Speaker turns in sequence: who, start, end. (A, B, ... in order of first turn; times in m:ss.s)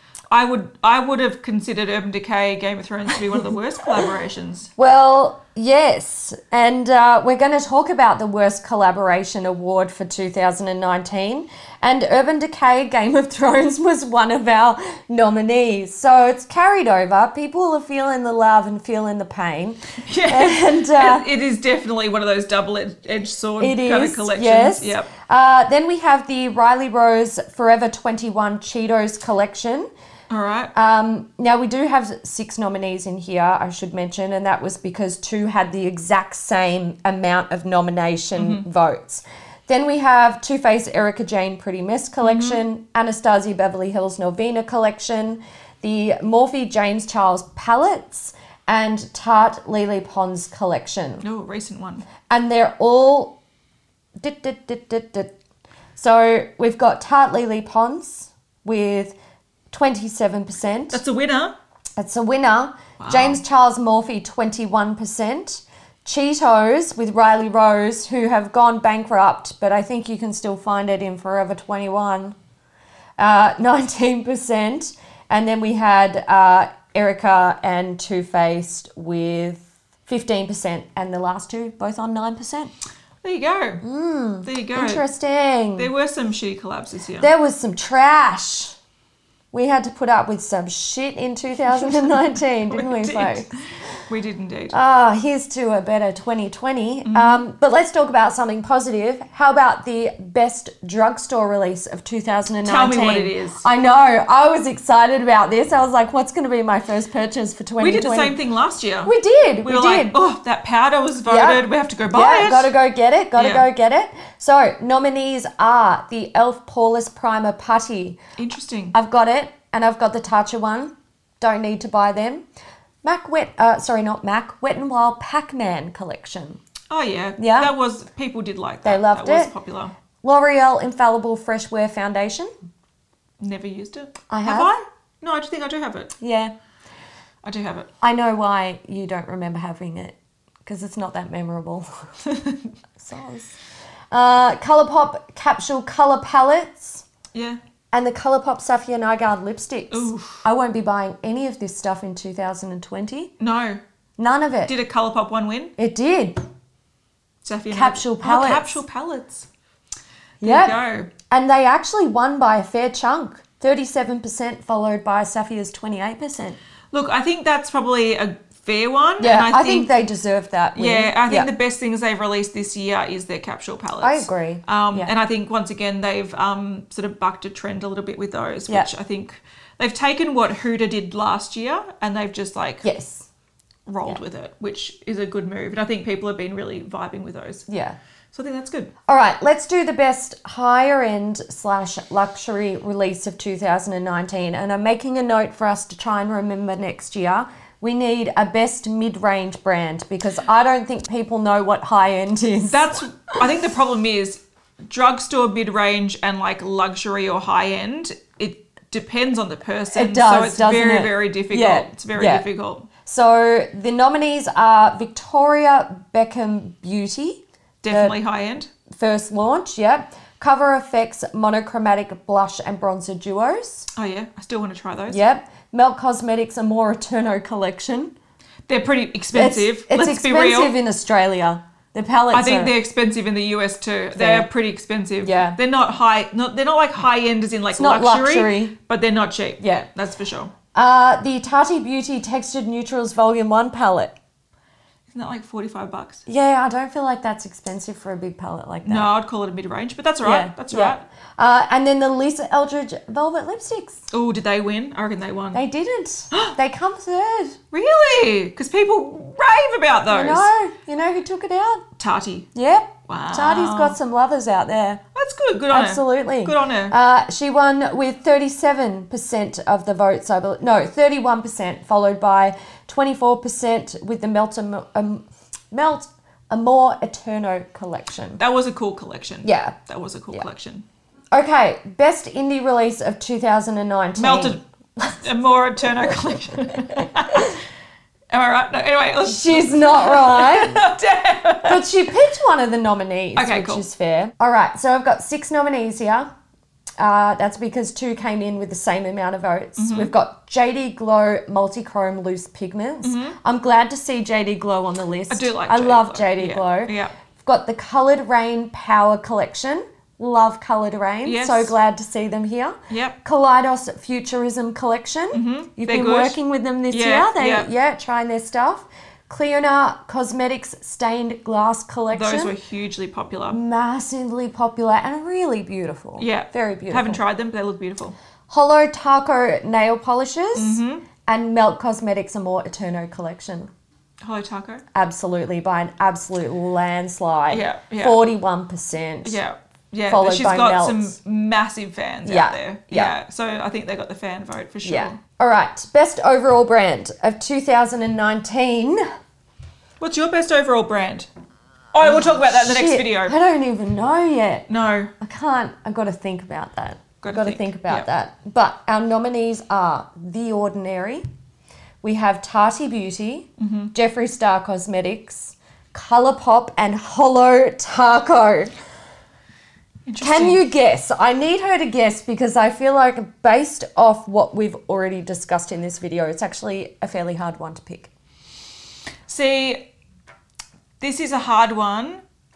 0:00.3-0:04.7 A
0:04.8-0:21.3 B
0:20.0-0:25.1 A
0:23.6-0:29.9 B
0:30.3-0:30.7 A
0:30.7-0:51.2 B
0:38.4-0:38.6 A
0:42.2-0:42.6 A
0:51.2-0:52.0 A
0:52.3-0:53.4 B
0:54.2-0:55.3 B
0:56.0-0:59.2 B
0:59.7-1:01.0 B
1:00.9-1:01.5 A
1:02.0-1:12.4 B
1:03.0-1:03.4 A
1:13.2-1:22.7 B
1:23.2-1:23.8 A
1:23.8-1:25.9 B
1:24.4-1:25.0 A
1:25.8-1:27.3 A
1:27.2-1:28.8 B
1:29.5-1:33.5 B
1:31.8-1:33.6 A
1:34.1-1:34.7 A
1:34.7-1:48.4 B
1:37.0-1:37.4 A
1:42.6-1:43.6 A
1:47.8-1:49.1 A
1:49.0-1:50.2 B
1:49.6-1:52.7 A
1:51.3-1:58.2 B
1:53.4-1:53.7 A
1:58.4-1:58.9 A
1:58.9-2:02.4 B
2:03.0-2:06.6 B
2:06.9-2:09.9 A
2:07.4-2:07.7 B
2:08.8-2:09.5 B
2:10.2-2:12.5 B
2:13.4-2:16.1 A
2:14.3-2:14.7 B
2:16.2-2:16.5 B
2:17.4-2:17.9 A
2:18.0-2:21.9 B
2:22.3-2:22.6 A
2:23.0-2:23.6 B
2:24.1-2:27.0 B
2:27.3-2:27.6 A
2:27.9-2:33.3 B
2:29.9-2:30.4 A
2:33.4-2:33.8 A
2:34.2-2:34.7 B
2:34.7-2:35.7 A
2:35.8-2:36.4 B
2:37.4-2:39.5 A
2:37.7-2:38.8 B
2:40.4-2:46.6 B
2:40.4-2:41.1 A
2:46.9-2:49.9 A
2:49.2-2:51.5 B
2:50.8-3:02.8 A
2:54.0-2:55.1 B
3:02.8-3:03.3 B
3:03.9-3:07.6 A
3:07.7-3:08.0 B
3:08.3-3:08.9 A
3:09.1-3:23.4 B
3:22.7-3:32.9 A
3:29.9-3:32.4 B
3:33.0-3:38.2 B
3:37.8-3:38.7 A
3:38.9-3:43.9 B
3:44.0-3:45.2 A
3:45.1-3:48.1 B
3:48.7-3:50.7 A
3:49.3-3:52.7 B
3:52.3-4:00.5 A
3:54.2-3:54.5 B
3:55.2-3:55.6 B
3:57.7-3:58.8 B
3:59.6-3:59.9 B
4:00.7-4:04.1 B
4:05.1-4:06.2 A
4:06.3-4:09.1 B
4:08.8-4:11.0 A
4:10.2-4:14.1 B
4:14.1-4:15.6 A
4:15.5-4:17.6 B
4:17.7-4:20.5 A
4:20.1-4:21.8 B
4:22.0-4:22.5 A
4:22.6-4:25.0 B
4:23.1-4:24.0 A
4:25.2-4:27.0 A
4:25.7-4:38.4 B
4:38.4-4:40.8 A
4:39.4-4:39.8 B
4:41.3-4:45.2 B
4:44.2-4:44.6 A
4:45.2-4:47.6 A
4:48.3-4:51.8 A
4:49.3-4:50.9 B
4:51.6-4:56.3 B
4:53.4-4:53.8 A
4:57.0-5:22.5 B
4:59.8-5:00.1 A
5:03.0-5:03.4 A
5:05.3-5:07.1 A
5:11.2-5:11.7 A
5:12.9-5:13.2 A
5:15.3-5:16.4 A
5:16.9-5:17.7 A
5:22.1-5:23.6 A
5:23.5-5:27.2 B
5:26.2-5:28.2 A
5:28.5-5:33.7 B
5:30.6-5:31.1 A
5:34.2-5:34.8 A
5:34.9-5:39.4 B
5:37.5-5:38.2 A
5:39.2-5:45.2 A
5:40.1-5:41.2 B
5:42.2-5:43.2 B
5:44.8-5:49.0 B
5:50.0-5:51.3 A
5:51.9-5:53.3 A
5:52.0-5:54.7 B
5:54.7-5:55.1 A
5:55.2-6:01.2 B
5:57.2-5:58.1 A
6:02.0-6:08.7 B
6:03.6-6:03.9 A
6:10.1-6:10.6 A
6:10.2-6:18.1 B
6:19.3-6:19.8 A
6:21.0-6:22.2 A